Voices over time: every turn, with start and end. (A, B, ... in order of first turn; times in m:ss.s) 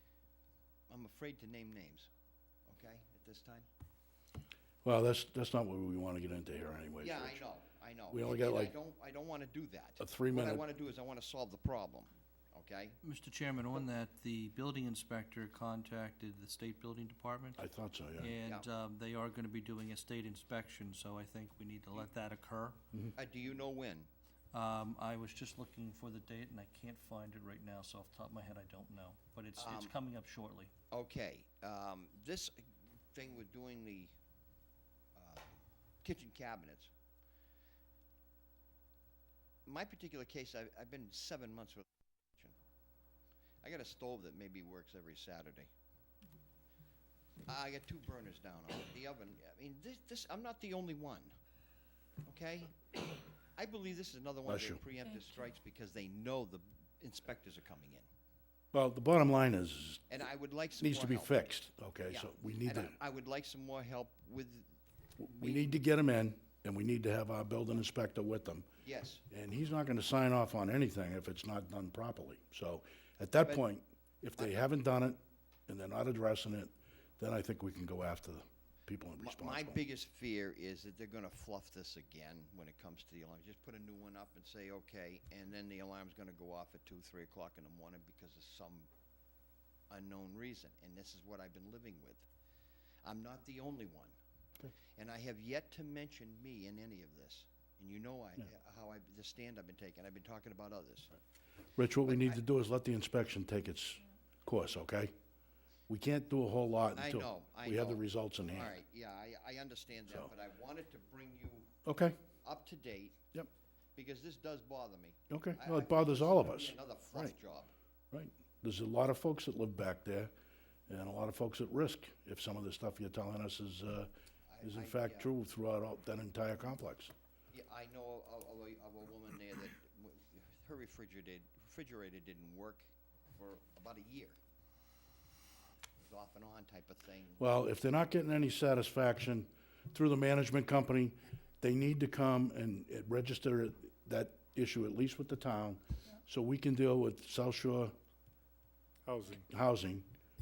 0:00.9-0:02.1 A
0:02.7-0:03.7 A
0:04.8-0:07.4 B
0:07.0-0:13.0 A
0:08.1-0:08.7 B
0:10.0-0:10.6 B
0:13.0-0:17.6 C
0:17.6-0:18.4 B
0:18.2-0:22.8 C
0:23.2-0:24.1 A
0:24.5-0:30.7 C
0:29.6-0:29.9 A
0:30.9-0:34.1 A
0:35.2-0:36.9 A
0:39.7-0:42.6 A
0:43.6-0:45.7 A
0:47.5-0:51.4 A
0:52.3-0:52.9 A
0:53.6-0:58.1 A
0:54.5-0:54.8 B
0:58.7-1:00.1 B
1:00.1-1:01.4 A
1:00.8-1:03.0 B
1:02.1-1:05.7 A
1:05.2-1:08.7 B
1:08.8-1:09.2 A
1:09.3-1:19.8 B
1:19.2-1:28.9 A
1:29.9-1:32.3 A
1:33.0-1:34.2 A
1:35.0-1:41.2 A
1:41.8-1:45.1 B
1:42.0-1:42.4 A
1:45.9-1:48.7 B
1:46.9-1:51.8 A
1:51.8-1:52.2 B
1:52.4-1:53.2 A
1:54.0-1:57.7 A
1:55.3-1:57.3 B
1:58.1-2:00.3 B
2:00.9-2:04.1 B
2:04.5-2:05.3 A
2:04.6-2:07.1 B
2:07.5-2:14.4 A
2:16.0-2:17.4 A
2:17.4-2:27.9 B
2:29.5-2:30.1 B